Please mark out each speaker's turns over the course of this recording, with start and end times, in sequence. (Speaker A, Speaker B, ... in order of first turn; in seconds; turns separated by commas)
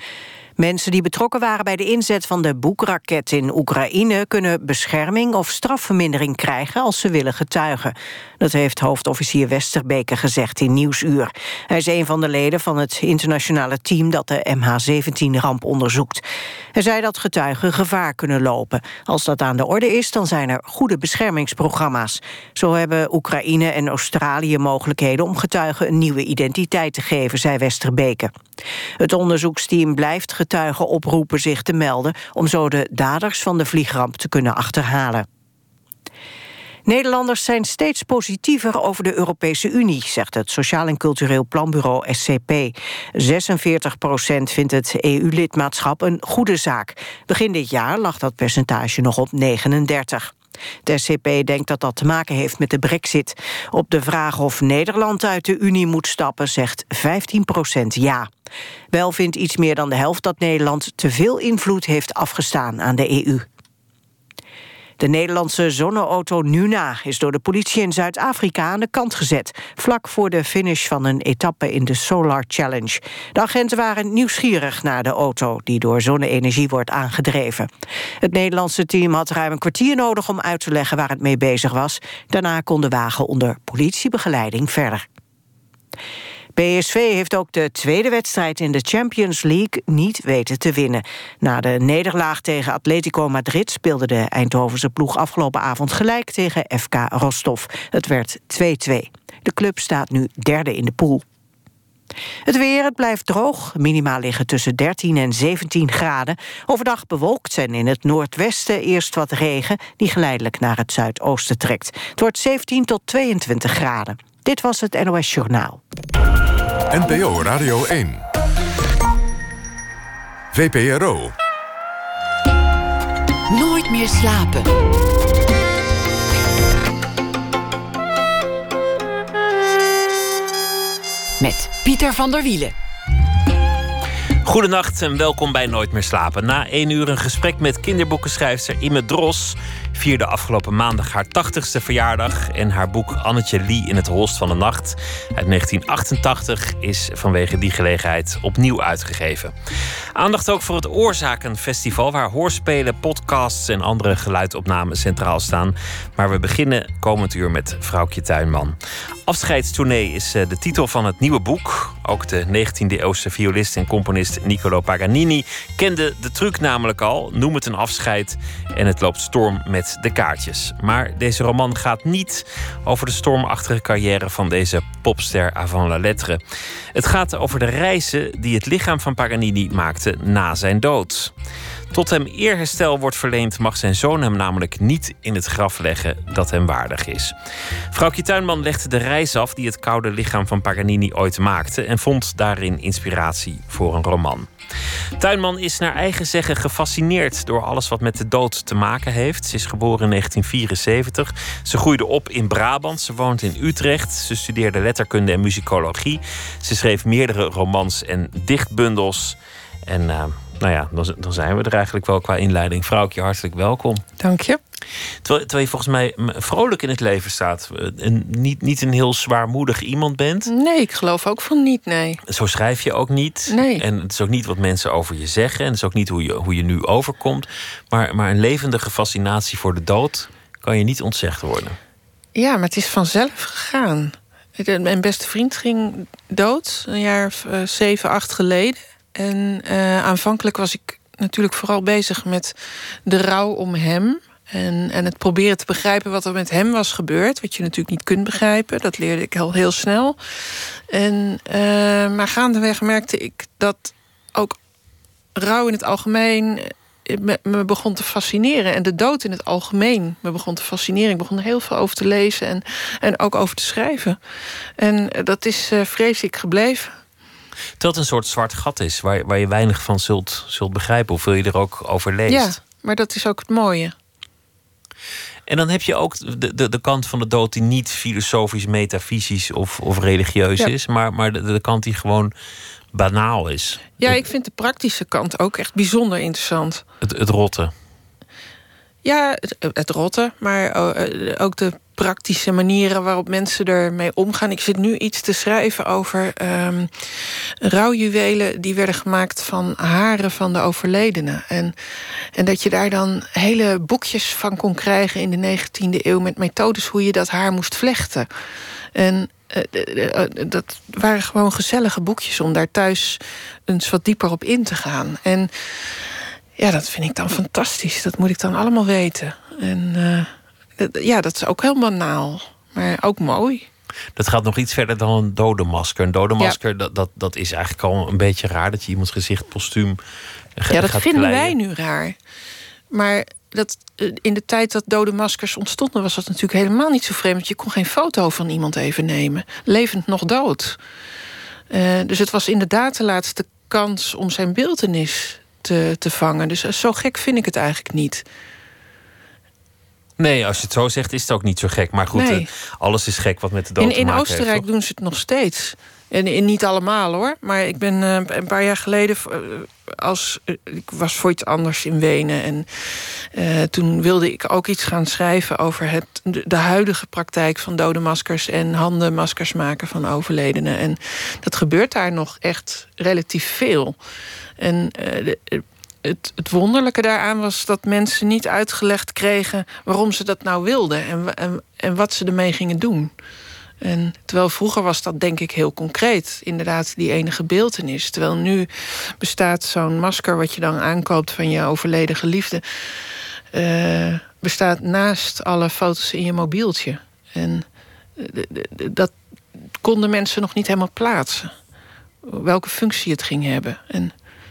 Speaker A: 0.6-16.2, Speaker A: 16.7-28.3, Speaker A: 29.0-35.3, Speaker A: 36.9-50.3, Speaker A: 50.9-58.3, Speaker A: 58.9-63.5, Speaker A: 65.0-77.7, Speaker A: 78.2-85.0, Speaker A: 86.5-101.2, Speaker A: 102.5-115.8, Speaker B: 116.9-118.2, Speaker B: 120.5-121.3, Speaker C: 123.5-124.7, Speaker C: 131.4-132.7, Speaker D: 134.4-149.5, Speaker D: 150.1-176.4, Speaker D: 176.9-181.3, Speaker D: 181.9-187.3, Speaker D: 187.9-194.5, Speaker D: 195.2-214.0, Speaker E: 214.2-214.6, Speaker D: 215.2-220.5, Speaker E: 220.5-222.2, Speaker D: 222.3-231.8, Speaker E: 223.5-223.8, Speaker E: 232.3-242.5, Speaker E: 243.1-250.2, Speaker E: 250.9-254.5, Speaker E: 255.3-264.2, Speaker E: 264.8-266.9, Speaker D: 267.8-272.6, Speaker E: 272.3-273.9, Speaker D: 275.5-282.3, Speaker D: 282.9-284.2, Speaker E: 284.0-286.8, Speaker D: 287.0-287.7, Speaker E: 289.0-296.9, Speaker E: 297.6-301.7, Speaker E: 302.3-308.3, Speaker E: 308.9-316.0, Speaker E: 316.6-323.7, Speaker D: 324.1-330.0, Speaker D: 330.6-331.6, Speaker E: 330.7-332.2, Speaker E: 332.9-340.8, Speaker E: 341.7-348.2, Speaker D: 350.2-354.6, Speaker E: 352.1-352.5, Speaker E: 353.8-373.9, Speaker E: 374.6-383.1, Speaker E: 383.8-388.7, Speaker E: 389.2-397.6, Speaker E: 398.2-399.1, Speaker E: 399.8-401.5, Speaker E: 402.2-404.1